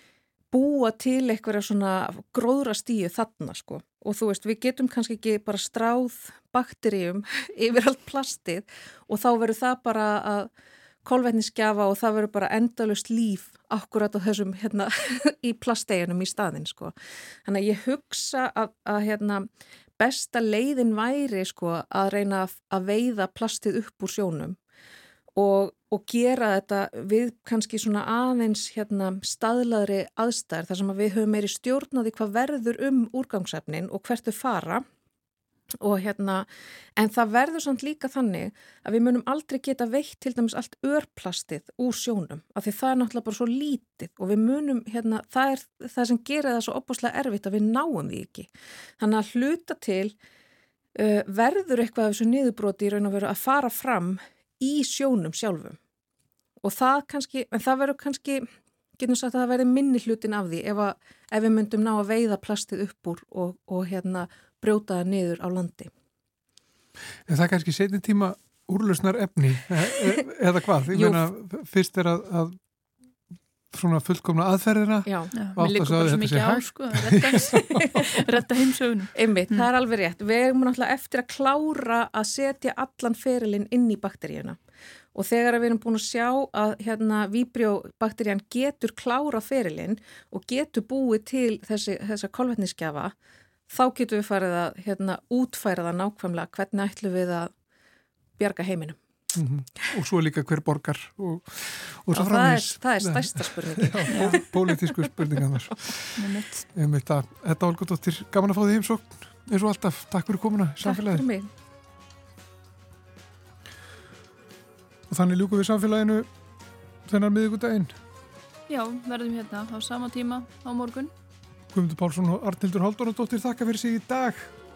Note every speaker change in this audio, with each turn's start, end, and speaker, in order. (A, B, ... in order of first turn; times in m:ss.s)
0:00.5-0:10.5 A
0:11.0-0:19.5 A
0:20.0-0:24.6 A
0:25.3-0:34.8 A
0:35.8-0:48.5 A
0:49.0-0:50.1 A
0:50.9-0:55.8 A
0:56.6-0:58.5 A
0:59.0-1:05.9 A
1:07.3-1:12.6 B
1:10.9-1:11.2 A
1:13.7-1:18.0 B
1:15.0-1:15.3 A
1:15.3-1:19.7 C
1:17.5-1:18.1 A
1:19.1-1:24.6 A
1:25.1-1:33.1 A
1:33.7-1:37.5 A
1:38.4-1:39.0 A
1:39.3-1:51.2 B
1:42.1-1:44.9 A
1:44.1-1:44.4 C
1:46.2-1:46.7 C
1:50.8-1:51.5 A
1:55.1-1:56.3 B
1:57.0-1:57.9 B
1:58.7-2:01.1 C
2:01.7-2:04.5 B